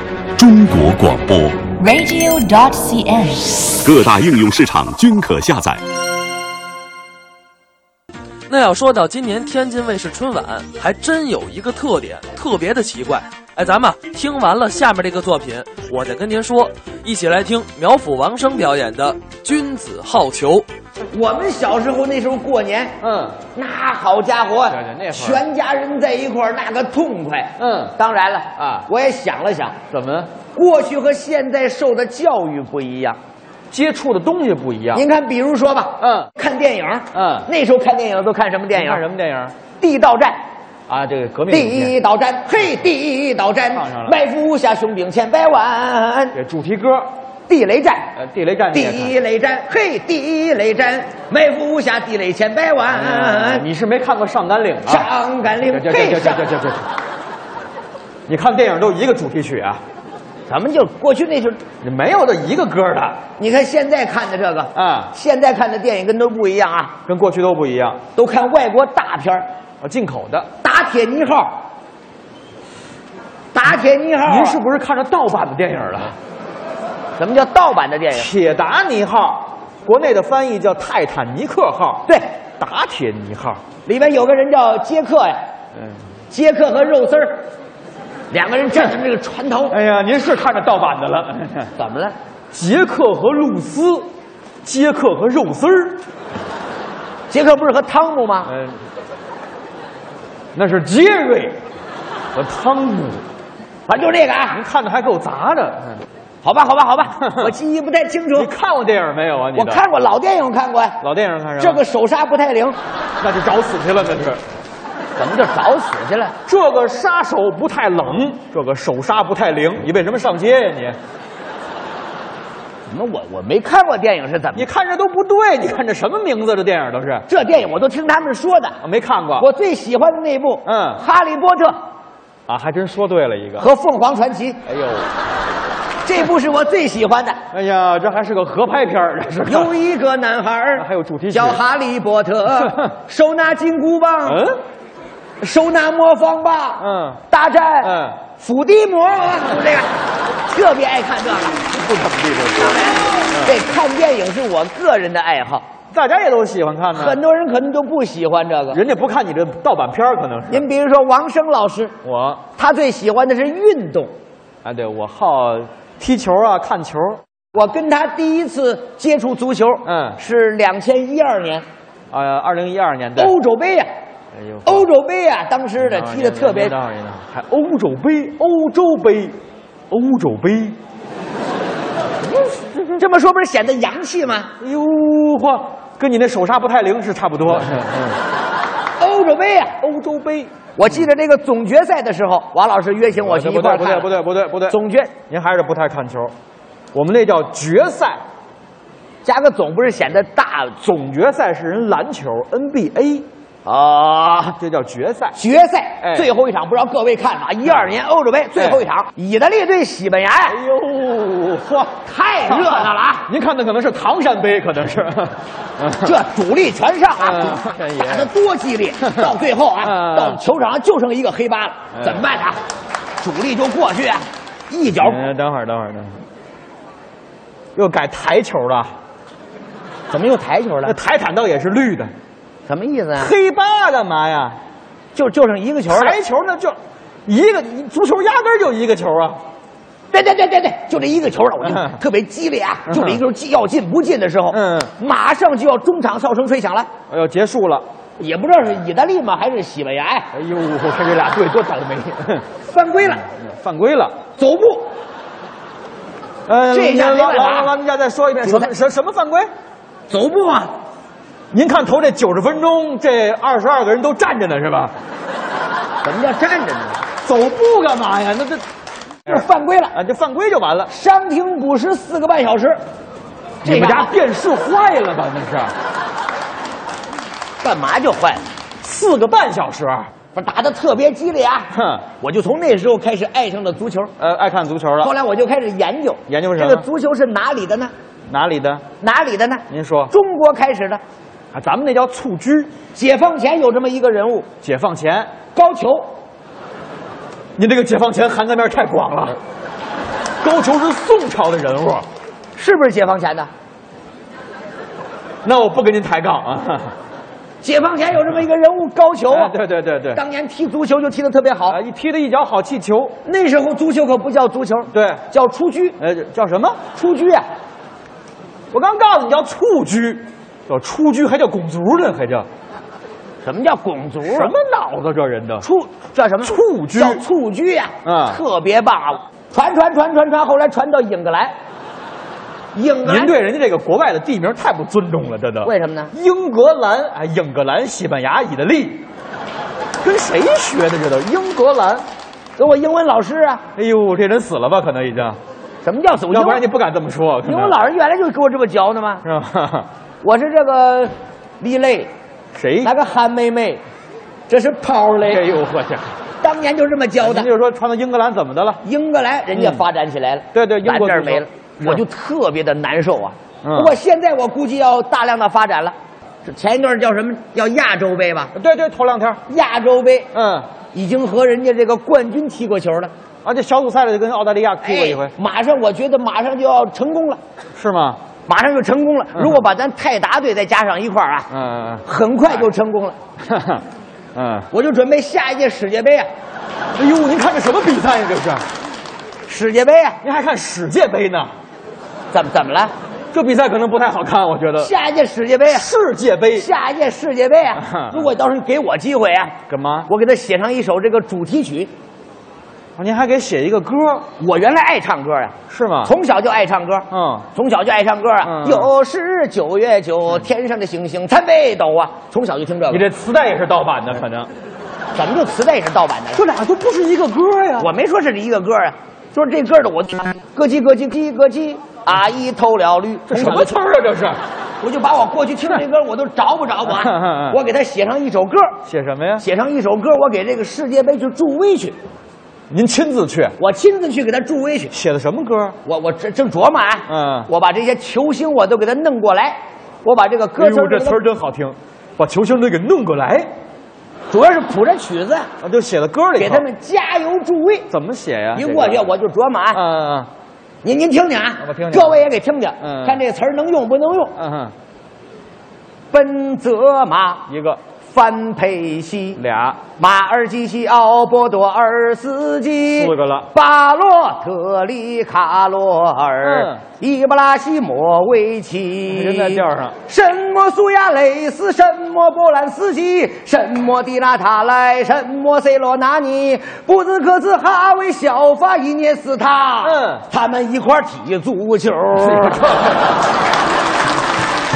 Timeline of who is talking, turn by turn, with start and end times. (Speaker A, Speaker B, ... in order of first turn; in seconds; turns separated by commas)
Speaker A: 0.3-1.7, Speaker B: 1.8-3.7, Speaker A: 3.8-5.8, Speaker C: 8.5-20.7, Speaker D: 21.1-22.9, Speaker E: 23.0-23.4, Speaker D: 23.5-29.8, Speaker E: 24.7-25.4, Speaker E: 27.6-27.9, Speaker E: 28.6-28.9, Speaker E: 29.9-30.3, Speaker D: 30.5-33.2, Speaker E: 33.7-35.0, Speaker D: 34.9-39.0, Speaker E: 36.0-36.3, Speaker E: 37.1-37.5, Speaker E: 38.7-39.5, Speaker D: 39.8-40.4, Speaker E: 40.9-41.9, Speaker D: 41.5-46.4, Speaker E: 43.7-44.2, Speaker E: 46.3-47.1, Speaker D: 47.5-48.1, Speaker E: 48.1-49.1, Speaker D: 48.7-53.7, Speaker E: 52.9-55.1, Speaker D: 54.9-56.4, Speaker E: 55.6-56.9, Speaker E: 58.3-59.8, Speaker D: 60.5-61.6, Speaker E: 61.8-63.2, Speaker D: 63.4-67.0, Speaker E: 64.7-65.1, Speaker E: 67.0-68.0, Speaker D: 68.1-69.5, Speaker E: 69.8-70.5, Speaker D: 70.6-71.6, Speaker D: 73.5-74.6, Speaker E: 74.2-76.2, Speaker D: 77.2-78.3, Speaker E: 78.1-82.0, Speaker E: 82.6-83.6, Speaker D: 83.8-85.4, Speaker D: 86.3-87.5, Speaker D: 88.3-89.8, Speaker E: 89.7-91.7, Speaker D: 91.8-92.1, Speaker E: 92.5-94.1, Speaker E: 94.6-96.0, Speaker D: 97.3-98.5, Speaker E: 98.5-98.8, Speaker E: 100.5-101.6, Speaker E: 102.3-103.2, Speaker D: 103.9-104.6, Speaker E: 104.5-106.0, Speaker D: 106.4-108.5, Speaker E: 107.2-107.5, Speaker E: 108.3-109.9, Speaker D: 109.5-111.0, Speaker E: 111.0-111.8, Speaker D: 111.6-112.8, Speaker E: 113.2-114.4, Speaker D: 115.2-116.3, Speaker E: 116.5-121.0, Speaker D: 122.9-124.7, Speaker E: 124.5-127.2, Speaker D: 127.3-128.8, Speaker E: 128.8-129.5, Speaker D: 129.3-131.8, Speaker E: 130.6-131.0, Speaker E: 132.5-133.7, Speaker D: 133.6-134.6, Speaker E: 134.7-135.1, Speaker D: 136.0-137.4, Speaker E: 137.5-139.7, Speaker D: 139.5-144.4, Speaker E: 140.7-141.6, Speaker E: 142.5-142.9, Speaker E: 144.2-144.6, Speaker D: 145.4-149.9, Speaker E: 146.8-147.2, Speaker E: 147.8-148.2, Speaker D: 150.5-151.7, Speaker E: 151.7-153.6, Speaker D: 152.6-155.6, Speaker E: 155.9-157.2, Speaker D: 156.9-158.8, Speaker E: 158.7-160.7, Speaker D: 160.5-161.9, Speaker E: 162.0-162.4, Speaker D: 162.5-164.1, Speaker E: 164.6-167.2, Speaker D: 167.5-171.6, Speaker E: 169.8-170.2, Speaker E: 172.1-173.3, Speaker D: 173.2-173.9, Speaker E: 174.3-174.9, Speaker D: 174.7-176.7, Speaker E: 175.8-179.4, Speaker E: 179.9-180.8, Speaker E: 182.3-182.9, Speaker D: 182.9-184.5, Speaker E: 184.6-188.2, Speaker D: 189.0-189.8, Speaker E: 189.8-190.5, Speaker D: 190.8-194.1, Speaker E: 193.2-194.8, Speaker D: 194.7-195.1, Speaker E: 195.3-196.3, Speaker E: 196.9-198.2, Speaker D: 199.2-201.0, Speaker E: 200.8-203.2, Speaker D: 203.6-204.6, Speaker E: 204.6-205.3, Speaker D: 205.3-210.6, Speaker E: 206.0-206.3, Speaker E: 208.6-208.8, Speaker E: 210.5-216.2, Speaker D: 212.0-213.3, Speaker D: 216.0-222.6, Speaker E: 217.2-218.3, Speaker E: 219.0-220.4, Speaker E: 221.9-222.2, Speaker D: 223.2-225.2, Speaker E: 225.0-226.2, Speaker E: 227.7-228.9, Speaker D: 230.1-231.0, Speaker E: 230.8-232.1, Speaker D: 232.7-233.3, Speaker E: 233.2-234.6, Speaker D: 235.1-236.2, Speaker E: 235.9-239.4, Speaker D: 240.1-246.9, Speaker E: 241.6-242.0, Speaker E: 242.9-243.2, Speaker E: 244.5-244.9, Speaker E: 247.1-247.8, Speaker D: 248.2-250.3, Speaker E: 250.3-252.4, Speaker D: 252.6-253.2, Speaker E: 253.2-254.1, Speaker D: 254.3-254.9, Speaker E: 256.5-259.5, Speaker D: 256.7-257.7, Speaker D: 258.4-258.7, Speaker D: 260.1-260.7, Speaker E: 261.5-264.9, Speaker D: 266.0-267.0, Speaker E: 267.2-268.6, Speaker D: 269.2-269.9, Speaker E: 269.2-270.9, Speaker D: 270.9-272.8, Speaker D: 273.6-274.1, Speaker E: 273.6-275.7, Speaker D: 277.6-278.4, Speaker E: 278.8-280.1, Speaker D: 280.3-284.1, Speaker E: 281.7-282.0, Speaker E: 284.2-285.1, Speaker D: 285.0-287.9, Speaker E: 286.3-286.9, Speaker E: 288.3-288.8, Speaker D: 289.0-291.0, Speaker E: 289.7-290.1, Speaker E: 291.5-292.7, Speaker D: 292.9-294.5, Speaker E: 294.6-295.3, Speaker D: 295.5-296.1, Speaker E: 297.6-299.4, Speaker E: 300.4-302.1, Speaker D: 302.5-303.5, Speaker E: 305.4-306.9, Speaker D: 307.6-309.5, Speaker E: 309.3-310.2, Speaker D: 310.1-311.8, Speaker E: 311.7-313.2, Speaker D: 313.2-316.0, Speaker E: 314.9-315.2, Speaker E: 316.0-316.8, Speaker D: 316.9-317.5, Speaker E: 318.7-322.5, Speaker D: 323.4-324.5, Speaker E: 324.2-325.6, Speaker D: 325.6-331.5, Speaker E: 326.4-327.2, Speaker E: 328.0-328.4, Speaker D: 332.7-333.3, Speaker E: 333.0-339.1, Speaker D: 335.6-336.1, Speaker E: 340.0-342.0, Speaker D: 342.6-343.6, Speaker E: 343.8-345.4, Speaker D: 345.8-346.6, Speaker E: 346.3-347.8, Speaker D: 347.4-349.2, Speaker E: 349.2-349.9, Speaker D: 350.2-352.1, Speaker E: 352.5-352.9, Speaker D: 352.8-353.8, Speaker D: 354.5-355.5, Speaker E: 355.2-356.1, Speaker D: 356.4-357.5, Speaker E: 357.2-358.8, Speaker D: 358.8-368.5, Speaker E: 359.5-359.8, Speaker E: 360.5-362.0, Speaker E: 363.6-363.9, Speaker E: 368.5-369.4, Speaker D: 369.5-370.3, Speaker E: 370.3-370.7, Speaker D: 370.9-373.1, Speaker E: 373.4-375.3, Speaker D: 374.8-377.4, Speaker E: 377.8-378.2, Speaker D: 378.4-381.5, Speaker E: 381.5-382.0, Speaker D: 382.0-383.2, Speaker E: 383.4-383.8, Speaker E: 384.3-384.7, Speaker D: 384.7-386.3, Speaker E: 386.9-388.6, Speaker D: 389.4-390.2, Speaker E: 390.2-391.5, Speaker D: 392.3-392.9, Speaker E: 393.3-394.9, Speaker D: 394.8-395.9, Speaker E: 395.7-396.7, Speaker D: 396.5-399.6, Speaker E: 397.7-398.3, Speaker E: 399.7-400.1, Speaker D: 400.1-401.9, Speaker E: 403.0-404.3, Speaker D: 404.4-413.1, Speaker E: 405.7-406.1, Speaker E: 407.1-407.5, Speaker E: 408.4-408.9, Speaker E: 412.9-414.5, Speaker D: 415.1-416.4, Speaker E: 416.3-417.9, Speaker D: 417.8-423.8, Speaker E: 423.3-424.4, Speaker D: 424.8-428.8, Speaker E: 426.8-427.6, Speaker E: 428.8-429.4, Speaker D: 429.4-431.9, Speaker E: 432.7-433.6, Speaker D: 433.6-434.9, Speaker E: 434.9-435.8, Speaker D: 435.8-441.2, Speaker E: 437.1-437.5, Speaker E: 440.6-443.5, Speaker D: 444.3-445.5, Speaker E: 445.6-446.6, Speaker D: 446.4-447.9, Speaker E: 447.9-449.1, Speaker D: 448.5-449.8, Speaker E: 449.7-450.3, Speaker D: 450.8-454.3, Speaker E: 451.6-452.3, Speaker E: 452.8-453.2, Speaker E: 454.4-454.7, Speaker D: 456.1-457.4, Speaker E: 457.5-457.8, Speaker D: 458.1-459.4, Speaker E: 459.4-459.8, Speaker D: 459.9-482.6, Speaker E: 462.9-463.5, Speaker E: 466.4-466.8, Speaker E: 469.1-470.0, Speaker E: 479.8-480.2, Speaker E: 482.2-483.1